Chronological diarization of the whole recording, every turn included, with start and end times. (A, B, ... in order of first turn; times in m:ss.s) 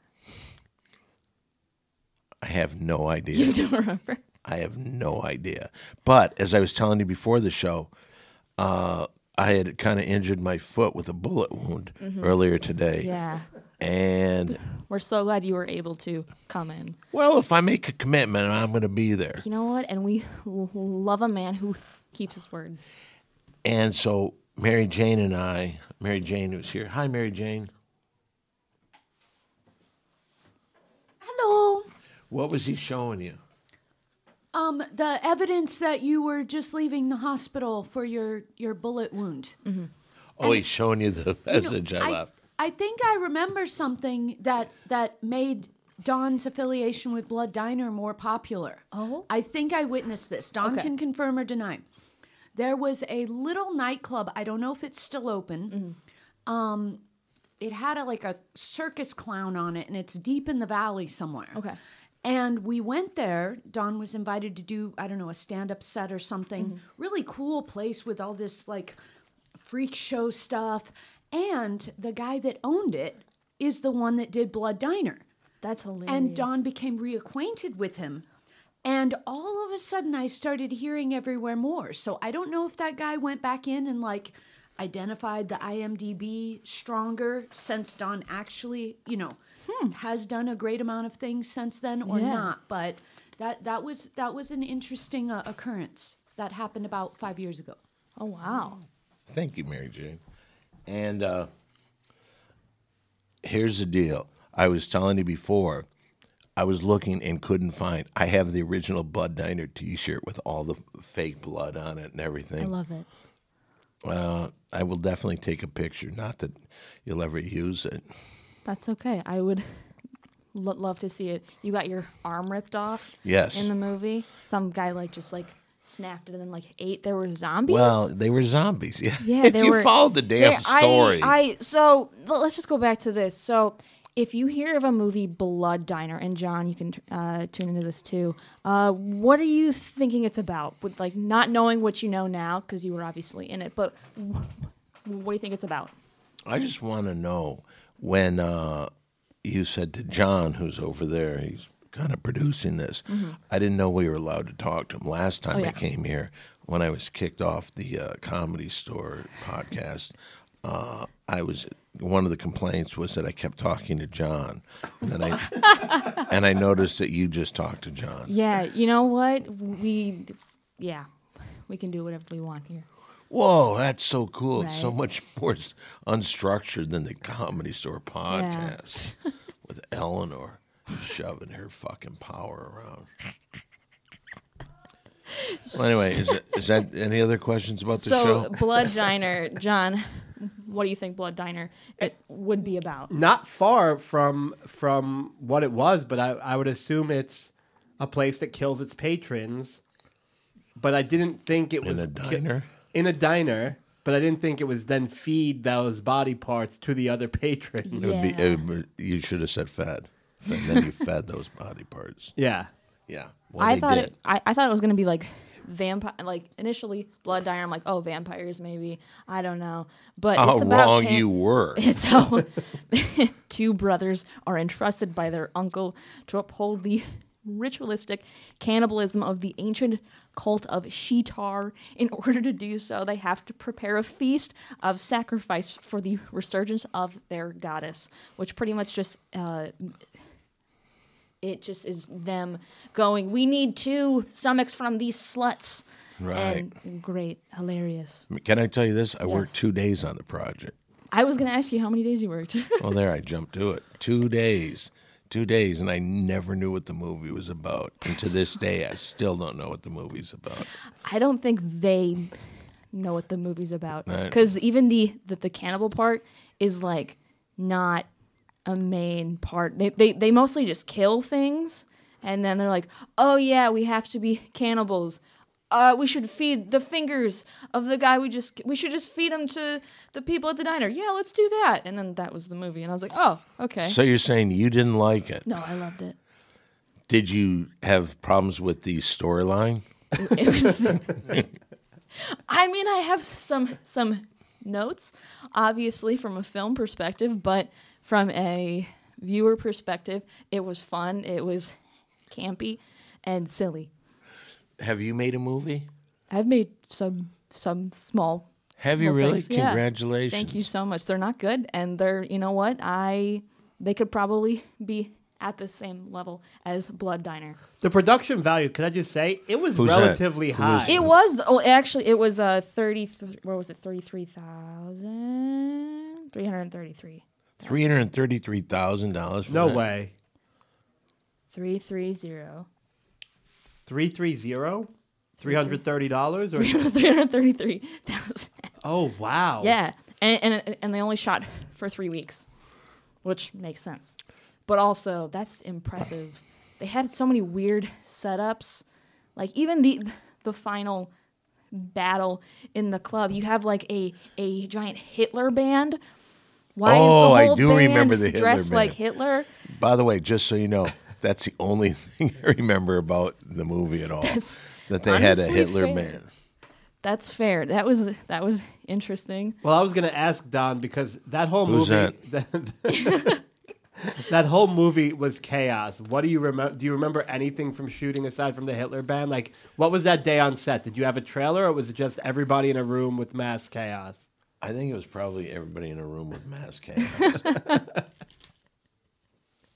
0:02.4-0:03.6 A
0:03.3-0:04.2 B
0:04.4-0:07.9 A
0:08.6-0:13.1 A
0:12.0-0:12.3 B
0:13.0-0:13.5 B
0:13.8-0:14.6 A
0:14.6-0:17.0 B
0:17.1-0:19.4 A
0:19.4-0:22.8 B
0:23.6-0:27.7 A
0:31.2-0:31.9 C
0:32.3-0:33.4 A
0:34.5-0:39.6 C
0:40.4-0:42.3 A
0:41.5-0:51.8 C
0:48.9-0:49.3 B
0:50.6-0:50.9 B
0:52.5-0:55.8 C
0:55.7-0:56.0 B
0:56.4-0:57.0 C
0:57.6-1:01.6 C
1:02.2-1:09.0 C
1:09.6-1:15.2 C
1:15.6-1:16.6 B
1:16.1-1:18.2 C
1:18.8-1:29.4 C
1:29.7-1:29.9 B
1:29.9-1:37.8 C
1:32.0-1:32.5 B
1:38.2-1:38.8 B
1:39.3-1:40.2 A
1:40.9-1:41.5 A
1:43.4-1:45.9 A
1:46.6-1:52.7 A
1:52.6-1:53.0 B
1:54.0-1:58.0 A
1:58.6-1:59.8 B
2:00.5-2:08.1 B
2:03.2-2:03.7 A
2:07.7-2:11.4 A
2:09.2-2:25.9 B
2:26.5-2:28.9 A
2:29.4-2:48.3 A
2:33.1-2:33.4 B
2:45.5-2:46.2 B
2:48.3-2:52.8 B
2:53.3-2:59.1 A
2:54.6-2:54.9 B
2:58.3-2:59.2 B
2:59.6-3:03.1 A
3:05.5-3:06.4 B
3:05.7-3:08.9 A
3:08.0-3:13.1 B
3:13.1-3:19.8 D
3:20.8-3:28.1 D
3:21.8-3:22.7 A
3:27.8-3:28.6 B
3:28.0-3:32.3 A
3:32.4-3:32.7 D
3:33.1-3:34.1 A
3:33.6-4:00.0 B
3:40.3-3:41.8 A
4:01.4-4:08.3 B
4:06.2-4:06.7 A
4:08.3-4:10.7 A
4:09.3-4:09.6 B
4:11.1-4:12.9 B
4:12.8-4:20.7 A
4:21.0-4:28.1 B
4:24.1-4:24.4 A
4:28.6-4:44.0 B
4:43.8-4:45.4 A
4:45.4-4:46.2 B
4:47.1-4:49.8 A
4:50.2-4:51.1 B
4:52.2-5:01.8 B
5:02.3-5:03.9 B
5:04.8-5:05.9 A
5:06.3-5:08.4 B
5:08.8-5:10.6 A
5:09.0-5:17.6 B
5:17.8-5:21.0 D
5:19.7-5:21.1 A
5:20.9-5:27.9 B
5:27.6-5:29.8 A
5:29.5-5:30.1 D
5:31.5-5:32.7 B
5:33.9-5:34.9 D
5:35.4-5:36.9 D
5:35.4-5:35.8 B
5:36.6-5:38.7 B
5:38.8-5:39.7 D
5:39.6-5:42.5 B
5:43.2-5:44.1 B
5:44.6-5:48.8 B
5:49.4-5:51.1 B
5:51.7-5:56.0 B
5:56.7-5:59.5 B
5:56.8-5:59.0 A
5:59.6-6:06.3 A
6:04.2-6:06.1 B
6:07.0-6:09.6 B
6:09.6-6:13.4 D
6:11.6-6:12.2 A
6:12.9-6:13.4 B
6:14.1-6:24.2 D
6:24.6-6:27.5 A
6:27.4-6:27.7 B